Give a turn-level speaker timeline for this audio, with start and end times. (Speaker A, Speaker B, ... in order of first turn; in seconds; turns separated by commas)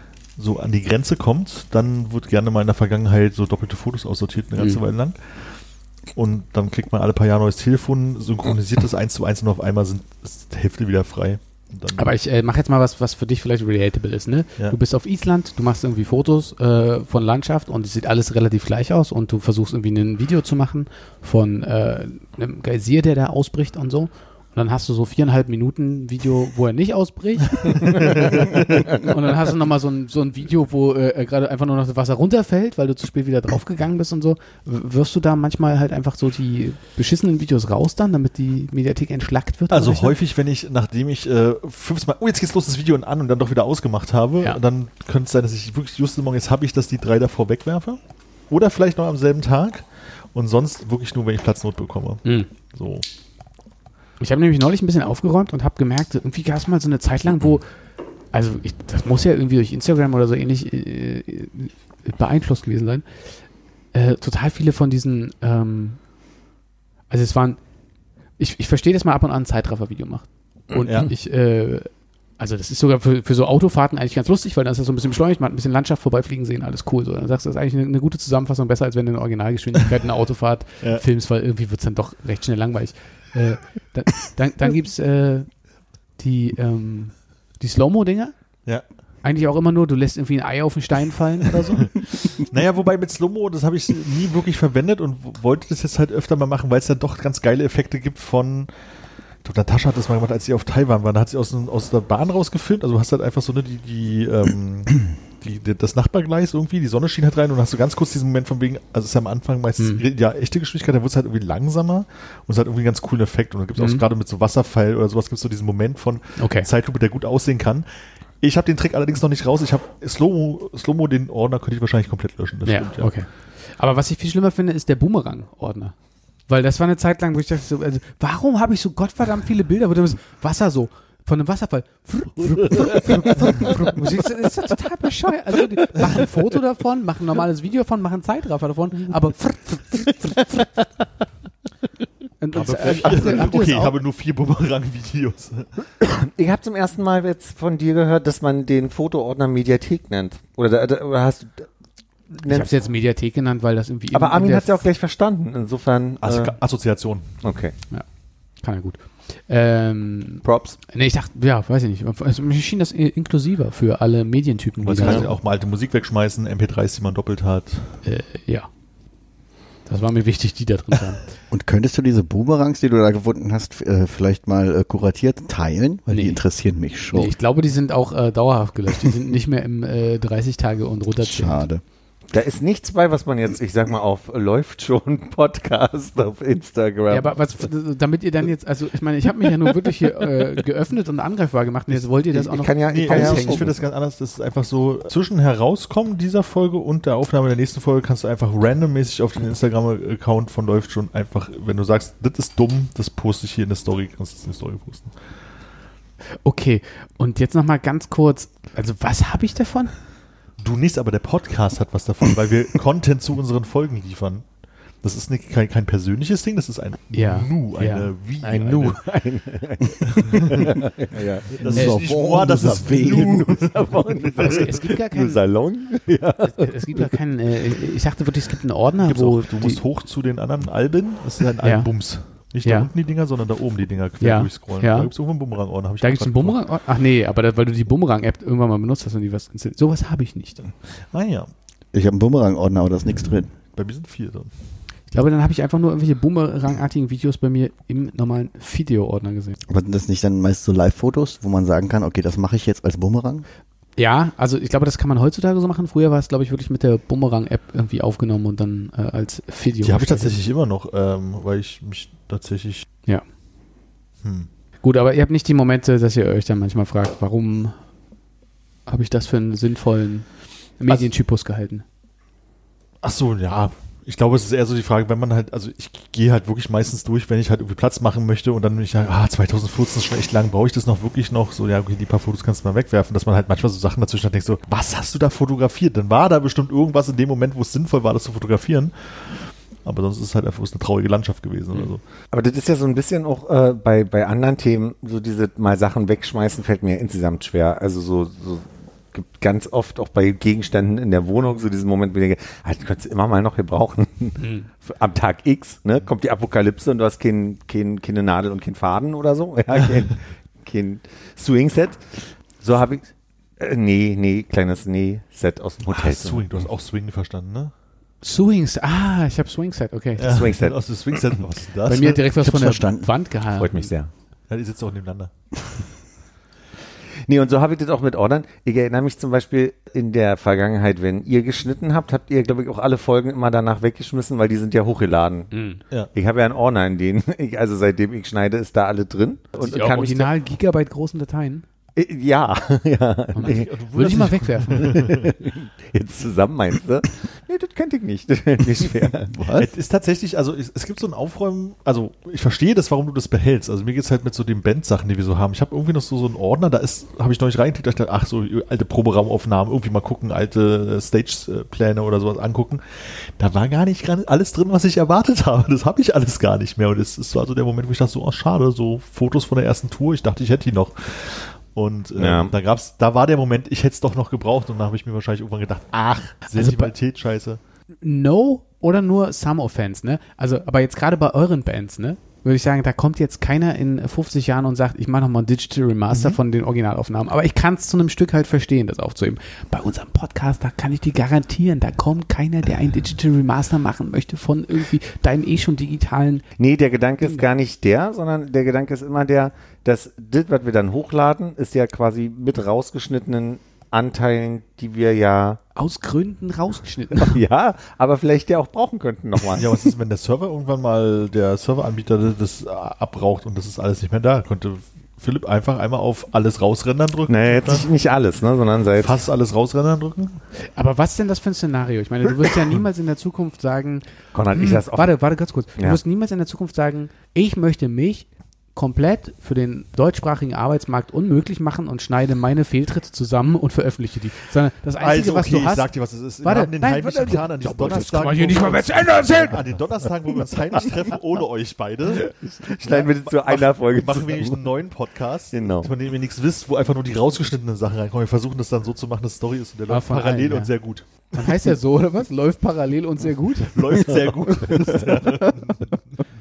Speaker A: 0.4-5.5, Speaker A: 6.1-12.1, Speaker B: 11.9-40.2, Speaker A: 39.7-53.0, Speaker B: 54.2-57.7, Speaker B: 58.3-63.0, Speaker B: 63.9-66.0, Speaker B: 67.1-67.6, Speaker B: 68.4-85.5, Speaker A: 70.8-71.1, Speaker B: 86.2-88.3, Speaker B: 89.2-91.9, Speaker A: 91.8-98.7, Speaker A: 99.4-117.9, Speaker B: 113.8-114.0, Speaker B: 116.4-116.7, Speaker A: 118.4-123.1, Speaker B: 122.7-125.9, Speaker B: 126.5-140.5, Speaker B: 142.4-144.0, Speaker A: 142.5-145.7, Speaker C: 146.0-151.7, Speaker C: 152.3-152.8, Speaker B: 152.5-154.8, Speaker C: 154.1-156.6, Speaker A: 156.2-157.4, Speaker C: 157.4-157.8, Speaker B: 158.6-165.3, Speaker C: 160.4-160.8, Speaker A: 164.8-168.0, Speaker C: 165.0-165.3, Speaker B: 168.0-168.7, Speaker B: 169.9-171.2, Speaker D: 171.5-177.3, Speaker B: 176.1-176.4, Speaker B: 177.1-181.6, Speaker D: 181.2-181.8, Speaker C: 182.3-187.4, Speaker B: 187.1-193.7, Speaker C: 192.3-193.7, Speaker A: 192.9-205.2, Speaker B: 206.4-209.9, Speaker A: 210.6-214.5, Speaker A: 215.0-219.0, Speaker B: 217.1-218.1, Speaker C: 218.4-221.6, Speaker A: 220.1-220.8, Speaker A: 221.5-224.7, Speaker D: 221.5-223.5, Speaker C: 222.9-227.1, Speaker B: 224.4-225.4, Speaker B: 226.4-229.8, Speaker A: 229.0-236.6, Speaker B: 231.6-231.9, Speaker B: 232.6-232.9, Speaker B: 234.2-235.1, Speaker B: 236.0-240.7, Speaker A: 241.1-241.5, Speaker D: 241.9-243.5, Speaker A: 243.7-244.5, Speaker B: 245.1-249.6, Speaker D: 249.7-253.4, Speaker B: 254.0-260.4, Speaker A: 259.8-262.9, Speaker A: 264.2-264.5, Speaker B: 264.8-267.8, Speaker B: 268.9-270.3, Speaker B: 270.8-271.8, Speaker A: 273.0-292.0, Speaker C: 292.3-316.4, Speaker B: 304.4-304.7, Speaker A: 315.9-317.7, Speaker B: 318.2-320.4, Speaker A: 320.2-322.2, Speaker C: 320.2-321.3, Speaker B: 321.8-323.9, Speaker D: 322.3-323.1, Speaker C: 323.6-324.1, Speaker A: 324.5-325.3, Speaker C: 327.2-335.5, Speaker B: 335.5-335.8, Speaker C: 336.1-340.3, Speaker B: 339.6-341.6, Speaker C: 342.0-343.7, Speaker B: 343.3-345.0, Speaker A: 343.4-345.3, Speaker C: 344.8-349.4, Speaker D: 349.4-349.6, Speaker A: 349.5-377.6, Speaker C: 372.2-372.5, Speaker B: 376.5-376.9, Speaker B: 378.0-396.4, Speaker A: 386.1-386.4, Speaker C: 396.6-405.6, Speaker B: 405.8-407.4, Speaker C: 407.2-409.7, Speaker A: 409.5-417.9, Speaker C: 417.3-419.2, Speaker A: 419.0-420.4, Speaker B: 420.6-435.9, Speaker C: 424.3-425.2, Speaker A: 435.0-451.5, Speaker B: 436.4-439.6, Speaker C: 442.1-444.8, Speaker C: 445.5-445.9, Speaker B: 449.9-450.8, Speaker B: 451.3-454.0, Speaker A: 453.7-456.0, Speaker C: 454.6-455.3